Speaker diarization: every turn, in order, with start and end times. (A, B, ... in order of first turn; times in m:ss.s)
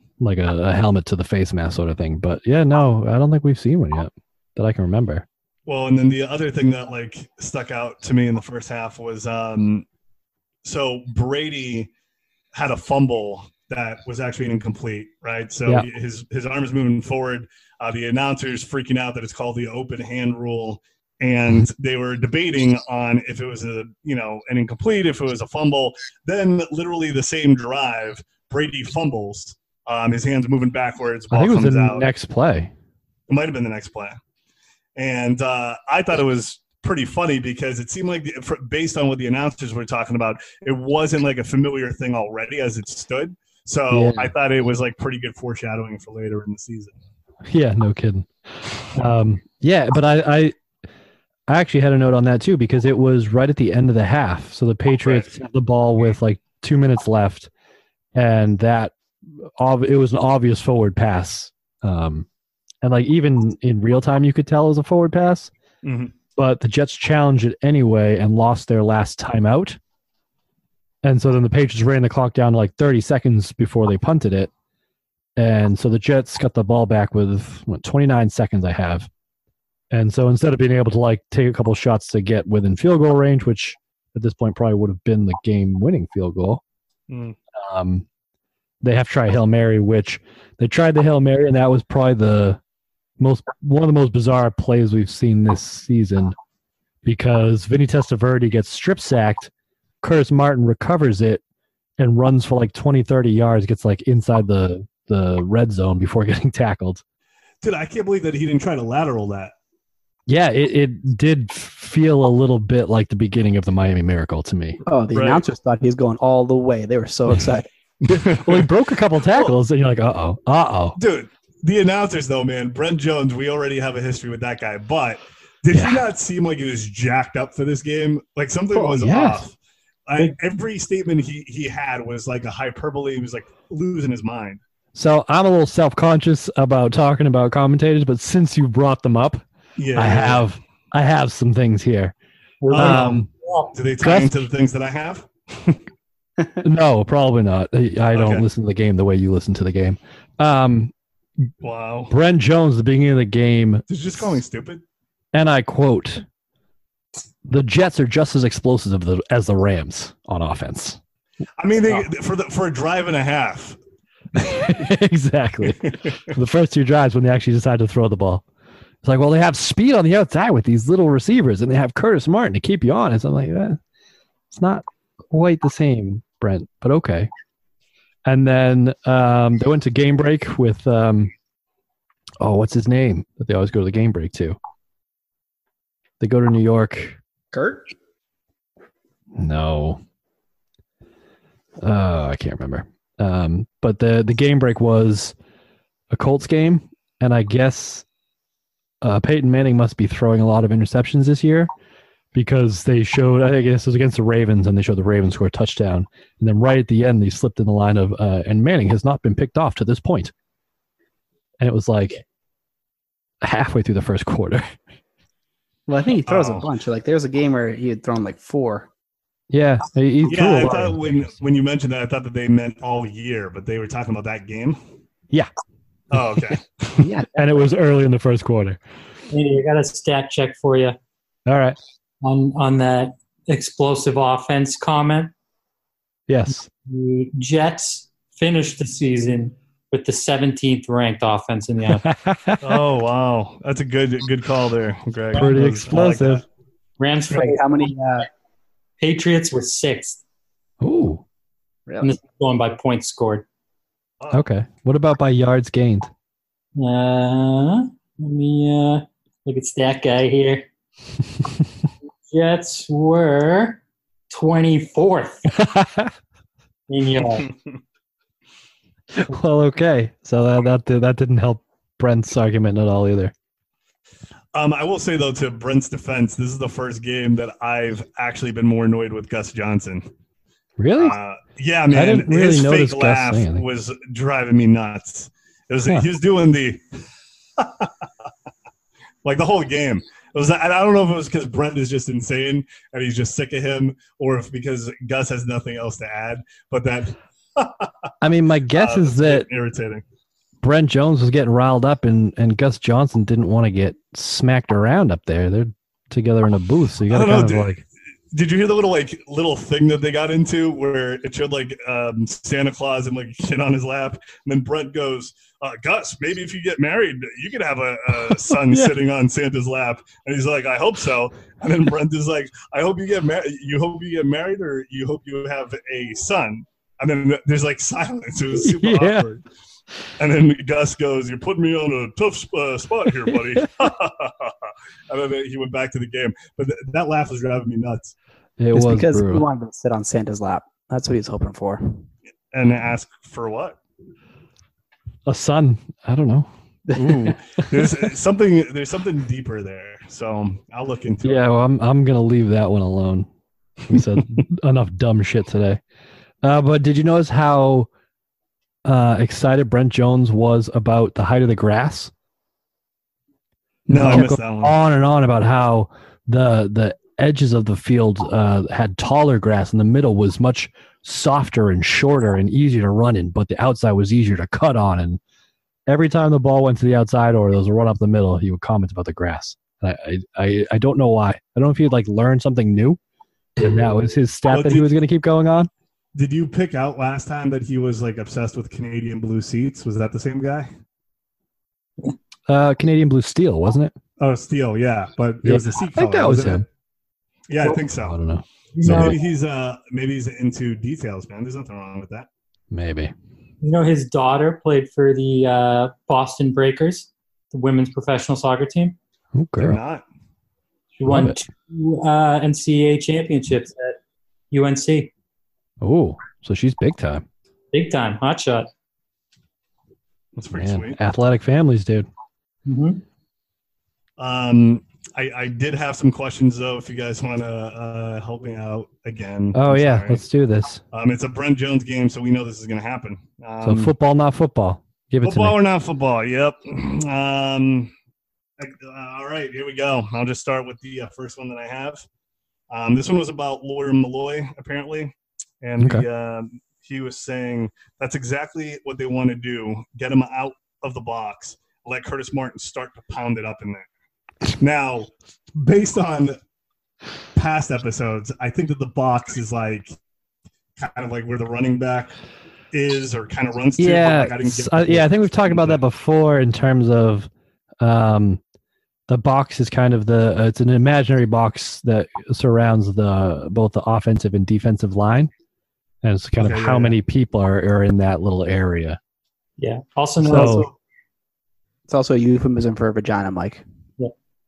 0:00.2-0:05.2 A
0:05.6-0:09.8 B
0:10.6-0:11.9 B
0:12.5-0:32.1 B
0:31.3-0:32.7 A
0:33.3-0:34.2 B
0:35.0-0:46.9 B
0:43.9-0:44.3 A
0:47.4-0:50.5 A
0:51.5-0:57.5 A
0:55.0-0:55.3 B
0:58.1-0:58.9 A
0:59.5-1:02.2 A
1:02.8-1:05.5 A
1:05.8-1:06.1 B
1:06.4-1:09.8 A
1:11.0-1:14.5 A
1:15.4-1:19.1 A
1:19.9-1:26.6 A
1:27.1-1:27.4 B
1:27.6-1:28.0 A
1:28.8-1:32.6 A
1:33.2-1:36.4 A
1:37.0-1:39.5 A
1:40.0-1:41.4 A
1:42.0-1:47.0 A
1:47.6-1:49.5 B
1:50.3-1:54.8 A
1:54.8-1:57.6 C
1:55.1-1:55.4 B
1:58.0-1:58.7 B
1:58.1-2:01.0 A
2:01.0-2:09.5 B
2:05.7-2:06.0 A
2:08.7-2:09.4 A
2:10.1-2:14.6 B
2:14.9-2:19.4 A
2:19.8-2:20.4 B
2:19.9-2:22.1 A
2:22.6-2:23.7 D
2:22.7-2:25.8 B
2:22.7-2:23.3 A
2:24.0-2:24.4 A
2:26.6-2:30.9 A
2:28.1-2:28.4 B
2:31.6-2:32.1 B
2:32.1-2:33.8 A
2:33.9-2:34.8 B
2:35.3-2:36.2 A
2:37.4-2:41.0 A
2:41.6-2:43.8 B
2:44.4-2:48.4 A
2:49.0-2:53.8 A
2:54.5-2:57.3 A
2:58.2-3:01.3 A
3:02.4-3:04.6 A
3:06.2-3:07.2 A
3:07.5-3:07.8 C
3:09.4-3:10.0 A
3:11.8-3:15.3 A
3:16.1-3:18.0 A
3:19.0-3:21.7 A
3:22.3-3:30.3 A
3:31.6-3:32.2 A
3:33.4-3:34.6 A
3:35.9-3:38.9 C
3:36.2-3:36.6 B
3:39.5-3:41.0 A
3:40.2-3:44.8 B
3:46.1-3:46.6 B
3:47.0-3:48.8 A
3:47.0-3:47.5 C
3:49.3-3:51.0 D
3:51.5-3:51.8 A
3:52.2-3:55.3 D
3:56.3-3:56.7 A
3:56.8-4:02.0 D
4:02.0-4:02.6 A
4:02.6-4:06.4 B
4:05.3-4:06.4 A
4:07.0-4:07.9 D
4:07.3-4:08.3 C
4:09.0-4:10.2 D
4:10.8-4:11.2 A
4:11.9-4:12.1 C
4:12.0-4:13.4 D
4:14.2-4:14.4 B
4:14.3-4:16.1 A
4:16.8-4:20.7 D
4:22.3-4:25.5 D
4:25.6-4:26.1 A
4:26.9-4:27.5 D
4:29.2-4:33.3 A
4:34.5-4:40.1 B
4:40.8-4:41.1 A
4:41.0-4:46.8 B
4:41.9-4:43.6 A
4:47.6-4:47.9 B
4:49.2-4:58.1 B
4:58.2-4:59.5 A
4:58.7-5:00.0 B
5:00.6-5:07.8 A
5:07.1-5:07.8 B
5:08.3-5:29.4 B
5:18.3-5:19.0 A
5:28.6-5:29.3 A
5:30.2-5:38.1 B
5:38.6-5:39.4 A
5:38.7-5:42.0 C
5:42.5-5:43.8 B
5:45.2-5:47.7 A
5:47.0-5:51.4 B
5:51.2-5:53.3 A
5:53.9-5:55.8 A
5:56.4-5:57.9 A
5:58.8-6:02.1 A
6:03.9-6:04.8 B
6:03.9-6:15.2 A
6:15.9-6:23.0 A
6:23.6-6:25.7 A
6:24.5-6:24.9 B
6:26.1-6:30.7 B
6:32.5-6:33.9 A
6:34.2-6:36.6 B
6:35.4-6:36.6 A
6:37.5-6:38.2 B
6:37.8-6:39.2 A
6:38.7-6:39.2 D
6:38.8-6:42.3 B
6:42.7-6:43.1 A
6:43.6-6:49.0 D
6:49.3-6:49.8 A
6:49.6-6:50.0 B
6:51.0-6:54.0 D
6:51.0-6:51.4 A
6:54.5-6:55.1 D
6:55.8-6:57.2 A
6:57.7-6:58.7 D
7:00.4-7:01.0 B
7:00.5-7:02.1 A
7:02.6-7:03.0 D
7:04.2-7:10.2 B
7:09.5-7:10.8 A
7:10.9-7:13.9 B
7:13.6-7:15.6 A
7:15.2-7:17.9 B
7:18.6-7:22.0 B
7:22.7-7:33.8 B
7:25.8-7:26.0 A
7:34.6-7:36.4 B
7:37.3-7:39.9 B
7:40.8-7:42.1 B
7:42.7-7:45.8 B
7:43.8-7:47.3 A
7:47.8-7:48.4 A
7:49.1-7:55.3 A
7:56.0-7:59.0 A
7:56.4-7:57.0 B
7:59.6-8:00.7 D
8:00.2-8:00.7 A
8:01.9-8:03.6 C